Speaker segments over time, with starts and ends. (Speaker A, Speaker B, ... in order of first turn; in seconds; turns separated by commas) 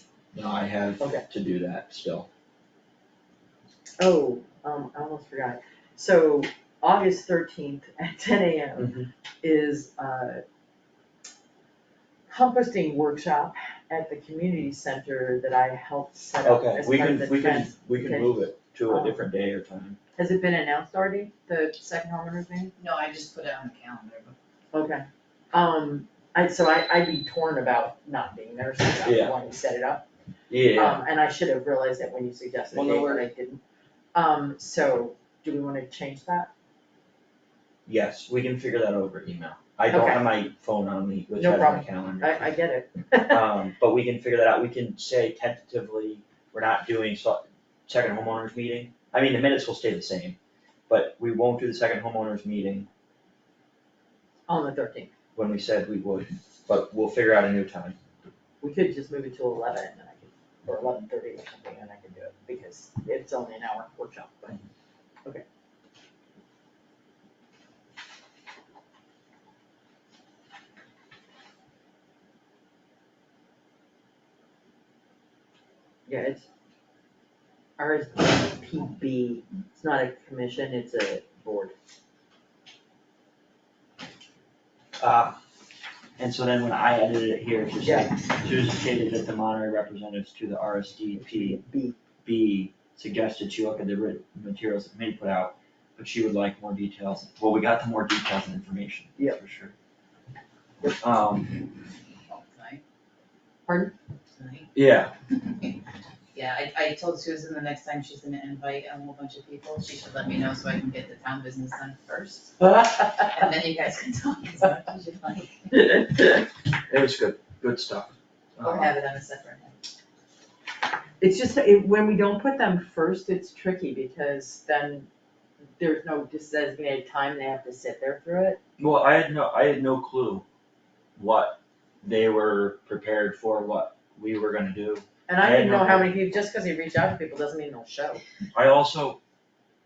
Speaker A: 0.3-2.3, Speaker B: 1.0-1.2, Speaker B: 4.0-10.4, Speaker A: 8.8-9.1, Speaker B: 12.3-19.2, Speaker A: 16.4-20.0, Speaker B: 20.2-22.7, Speaker C: 22.8-24.3, Speaker B: 24.7-30.1, Speaker A: 29.0-29.3, Speaker A: 30.5-31.0, Speaker B: 30.7-33.6, Speaker A: 32.7-33.2, Speaker B: 34.1-36.5, Speaker A: 37.9-42.5, Speaker B: 39.9-40.2, Speaker B: 41.3-43.4, Speaker A: 43.3-50.4, Speaker A: 50.9-52.9, Speaker B: 54.5-55.1, Speaker A: 55.4-58.0, Speaker B: 58.6-64.6, Speaker B: 76.1-76.5, Speaker B: 77.8-81.7, Speaker A: 85.0-85.4, Speaker A: 86.2-91.6, Speaker B: 87.8-88.1, Speaker B: 91.1-92.0, Speaker A: 92.2-99.7, Speaker A: 100.9-101.6, Speaker C: 102.3-102.8, Speaker B: 103.7-103.9, Speaker C: 104.3-104.7, Speaker A: 104.7-105.1, Speaker C: 105.3-105.8, Speaker C: 106.3-115.8, Speaker A: 116.4-118.9, Speaker C: 118.6-119.8, Speaker B: 121.2-125.1, Speaker B: 125.8-128.6, Speaker A: 128.8-130.4, Speaker A: 131.2-136.1, Speaker B: 135.3-138.2, Speaker A: 138.5-139.2